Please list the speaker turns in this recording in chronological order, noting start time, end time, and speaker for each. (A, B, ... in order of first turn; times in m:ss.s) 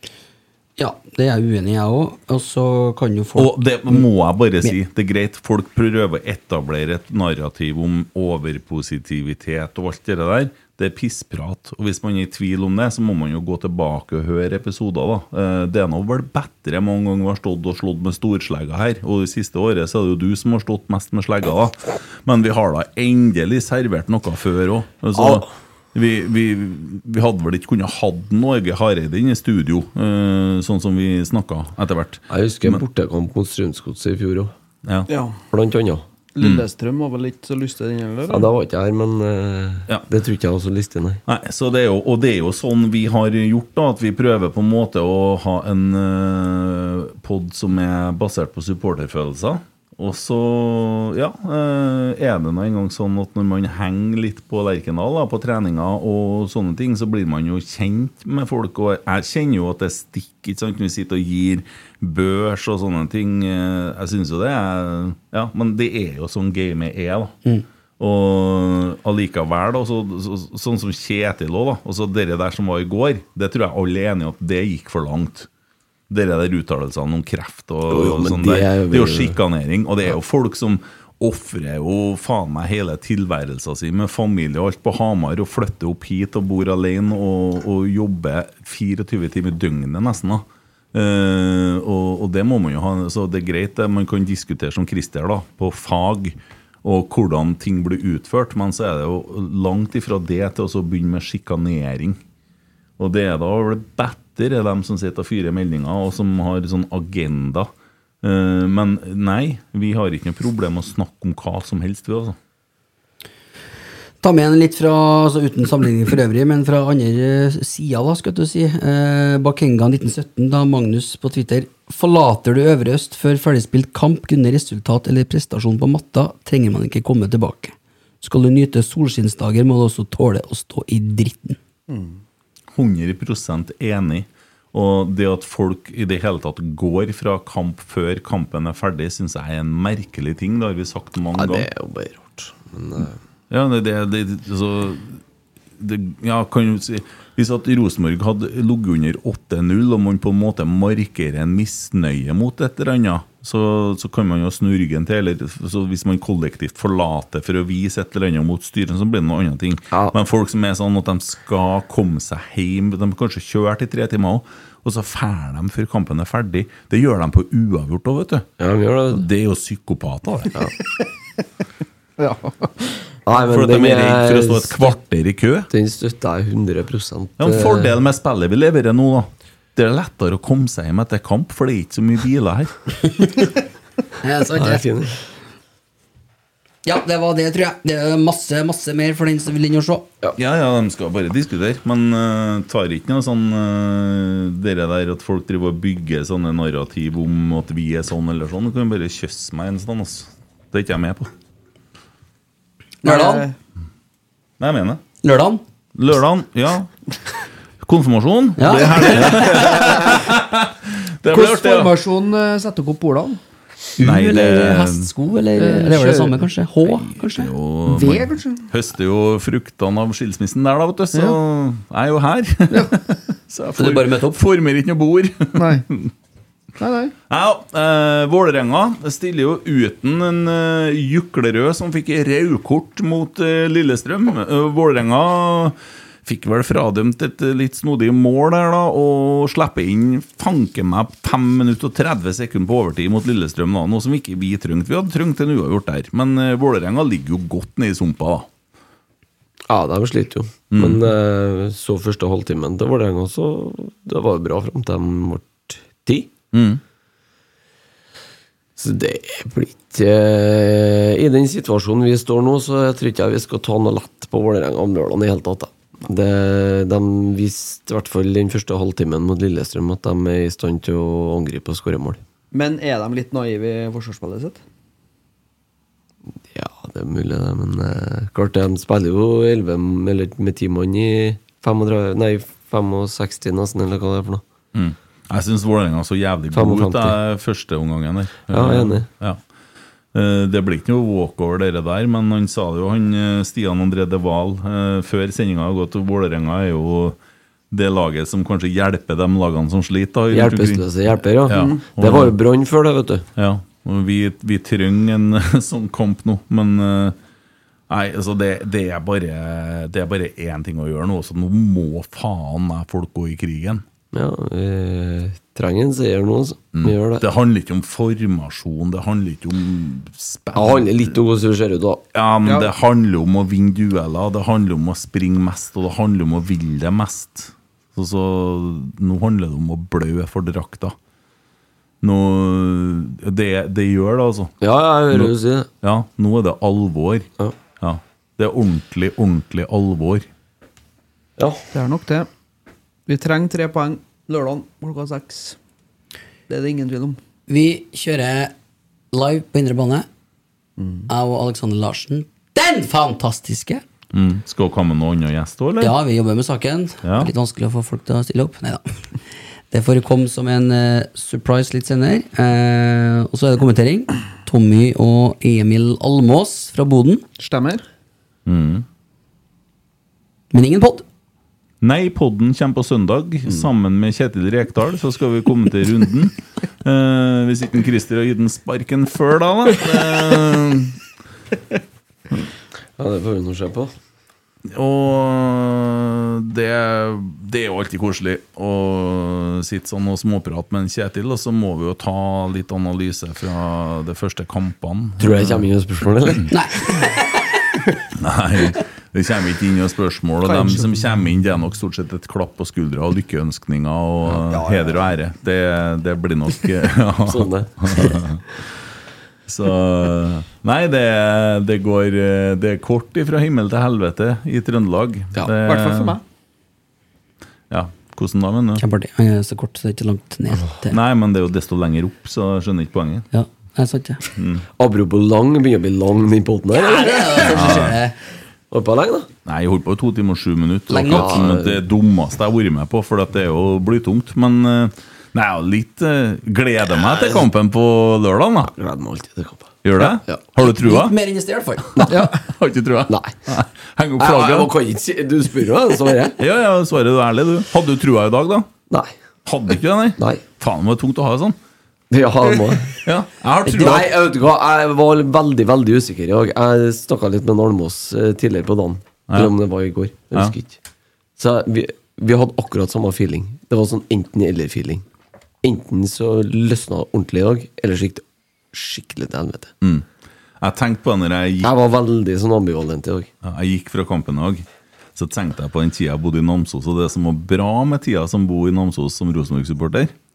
0:00.8-0:04.1 A
0:03.4-0:32.8 B
0:25.2-0:25.5 C
0:32.3-0:34.5 C
0:35.1-0:35.4 D
0:35.5-0:36.0 C
0:36.4-0:38.5 D
0:36.4-0:36.6 B
0:38.3-0:41.2 C
0:41.3-1:07.4 B
1:08.0-1:15.5 B
1:16.1-1:42.2 B
1:17.9-1:19.4 C
1:43.0-1:47.7 B
1:48.2-1:52.4 B
1:54.2-2:11.6 A
2:11.9-2:12.2 D
2:12.7-2:21.7 B
2:21.4-2:23.2 C
2:23.5-2:25.2 B
2:25.8-2:48.5 B
2:48.6-2:49.2 C
2:49.1-2:50.6 B
2:52.2-2:53.0 D
2:53.3-2:54.9 C
2:53.4-2:55.7 B
2:55.7-2:57.9 C
2:57.4-3:02.7 B
3:04.2-3:04.8 A
3:04.6-3:05.3 C
3:06.8-3:10.0 A
3:10.4-3:21.3 B
3:23.0-3:23.5 A
3:23.0-3:23.6 D
3:24.6-3:25.0 B
3:25.2-3:25.6 A
3:26.0-3:26.9 B
3:27.8-3:31.9 B
3:28.6-3:29.8 A
3:31.3-3:33.4 D
3:34.0-3:35.1 B
3:34.0-3:37.5 A
3:35.6-3:36.5 D
3:37.2-3:46.1 B
3:37.9-3:38.7 D
3:42.7-3:43.0 D
3:43.8-3:44.4 A
3:45.6-3:45.8 D
3:46.8-3:47.1 D
3:47.3-4:08.5 B
4:09.7-4:16.3 C
4:10.7-4:11.1 B
4:16.5-4:16.8 B
4:18.8-4:32.2 C
4:32.5-4:34.6 D
4:36.5-4:44.4 C
4:44.7-4:49.4 B
4:46.5-4:47.2 C
4:48.5-4:49.1 C
4:50.1-4:57.2 B
4:57.7-5:02.4 B
5:00.3-5:03.3 C
5:03.4-5:07.2 B
5:07.9-5:13.8 B
5:14.1-5:17.2 C
5:16.8-5:21.2 B
5:20.5-5:22.0 C
5:22.1-5:31.0 B
5:32.0-5:34.5 B
5:34.6-5:35.7 C
5:35.1-5:37.3 B
5:37.8-5:40.3 B
5:41.4-5:41.6 C
5:41.7-5:42.3 D
5:43.1-5:45.6 D
5:46.5-5:47.2 D
5:47.5-5:48.5 A
5:49.1-5:50.1 A
5:50.8-5:51.1 D
5:51.1-5:53.8 A
5:54.1-5:56.0 B
5:55.8-5:59.1 A
5:57.0-5:57.3 B
5:59.7-6:07.2 A
6:07.4-6:07.8 D
6:08.5-6:08.9 B
6:10.5-6:11.0 A
6:11.8-6:21.0 B
6:23.0-6:23.9 C
6:24.7-6:35.6 B
6:35.2-6:36.5 C
6:36.5-6:37.6 A
6:38.2-6:48.4 B
6:40.4-6:41.0 D
6:44.5-6:45.0 D
6:47.3-6:48.2 C
6:49.5-6:56.2 B
6:55.6-6:56.2 D
6:57.7-6:58.8 B
6:58.8-7:01.0 A
7:00.9-7:03.3 B
7:03.3-7:04.2 A
7:04.4-7:04.6 B
7:04.8-7:07.9 C
7:06.7-7:08.2 A
7:07.4-7:08.0 B
7:08.7-7:09.3 C
7:09.4-7:18.7 B
7:10.9-7:11.4 A
7:10.9-7:11.8 C
7:17.1-7:17.4 C
7:18.8-7:20.4 C
7:19.8-7:21.2 B
7:20.6-7:22.0 A
7:22.1-7:24.7 B
7:22.1-7:22.4 D
7:23.1-7:23.4 C
7:24.2-7:26.4 C
7:26.4-7:28.7 B
7:29.5-7:31.6 B
7:32.1-7:33.0 C
7:33.0-7:34.2 B
7:33.6-7:40.8 C
7:39.3-7:39.6 B
7:41.4-7:45.0 C
7:45.6-7:49.7 C
7:50.6-7:51.7 B
7:51.6-7:53.3 C
7:53.4-8:00.1 B